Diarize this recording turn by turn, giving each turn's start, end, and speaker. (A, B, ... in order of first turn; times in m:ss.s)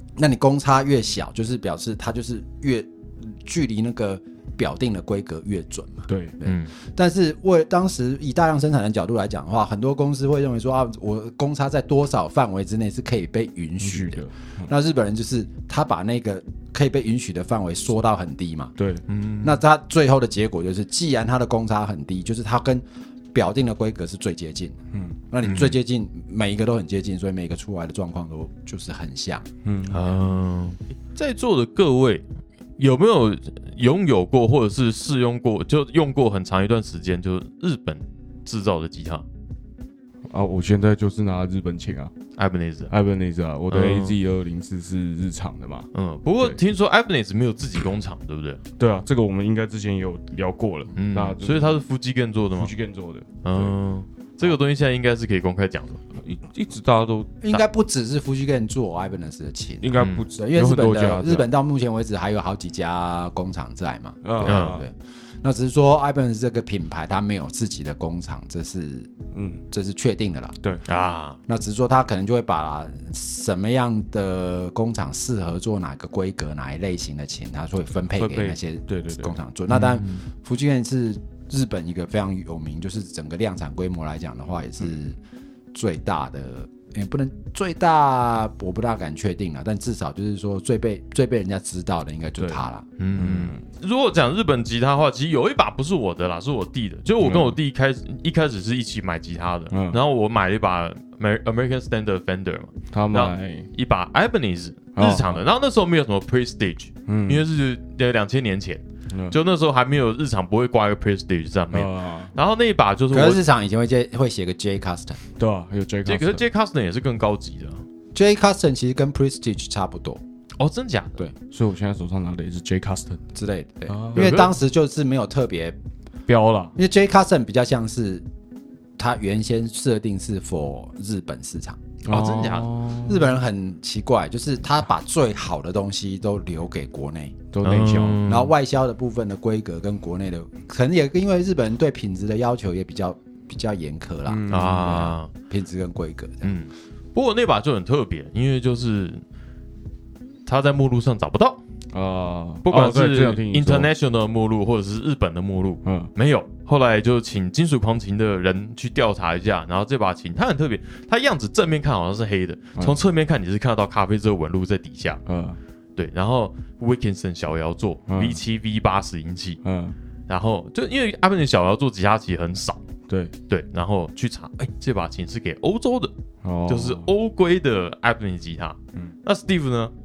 0:00.2-0:18.7 A
0:06.1-0:06.4 B
0:06.4-0:06.7 C
0:13.8-0:14.7 B
0:18.8-0:19.0 B
0:19.1-0:19.6 C
0:19.4-0:24.8 A
0:25.3-0:29.5 A
0:25.4-0:25.7 C
0:29.6-0:30.0 B
0:29.9-0:32.2 C
0:32.8-0:39.2 C
0:40.3-0:42.1 B
0:42.4-0:42.9 C
0:42.9-0:46.6 B
0:43.7-0:44.2 C
0:45.9-0:48.6 C
0:48.8-0:51.8 B
0:51.0-0:52.7 C
0:52.6-0:53.8 B
0:53.4-0:56.0 C
0:56.2-0:57.6 B
0:57.4-1:09.1 A
0:59.8-1:01.5 B
1:00.0-1:00.2 C
1:04.2-1:04.9 B
1:04.4-1:04.8 C
1:09.3-1:09.6 B
1:09.7-1:10.6 A
1:10.9-1:11.4 C
1:11.5-1:25.2 A
1:18.2-1:19.4 B
1:25.7-1:32.8 A
1:33.0-1:53.4 C
1:33.2-1:33.6 B
1:37.2-1:37.6 B
1:39.7-1:40.0 B
1:42.9-1:43.7 B
1:45.0-1:45.4 B
1:47.1-1:47.4 B
1:49.1-1:49.4 B
1:51.7-1:52.3 B
1:53.1-1:55.2 A
1:55.4-1:56.4 B
1:56.1-1:57.8 C
1:58.1-2:00.2 A
2:00.6-2:01.2 C
2:01.5-2:03.2 B
2:03.4-2:05.8 A
2:03.9-2:04.6 B
2:06.3-2:06.7 B
2:06.8-2:08.2 A
2:09.0-2:11.8 A
2:12.1-2:13.3 B
2:12.1-2:12.7 C
2:13.1-2:17.4 A
2:17.5-2:18.2 B
2:17.6-2:18.5 C
2:18.3-2:26.5 A
2:24.3-2:25.1 B
2:24.5-2:25.3 C
2:26.4-2:29.2 C
2:30.5-2:31.6 C
2:31.9-2:33.9 B
2:32.7-2:45.2 C
2:35.8-2:36.1 B
2:45.3-2:45.6 B
2:46.0-2:49.6 C
2:48.1-2:48.4 B
2:49.6-2:50.0 B
2:50.3-2:52.8 C
2:53.1-2:53.3 B
2:53.5-2:56.1 C
2:56.4-2:57.1 B
2:56.7-2:59.9 C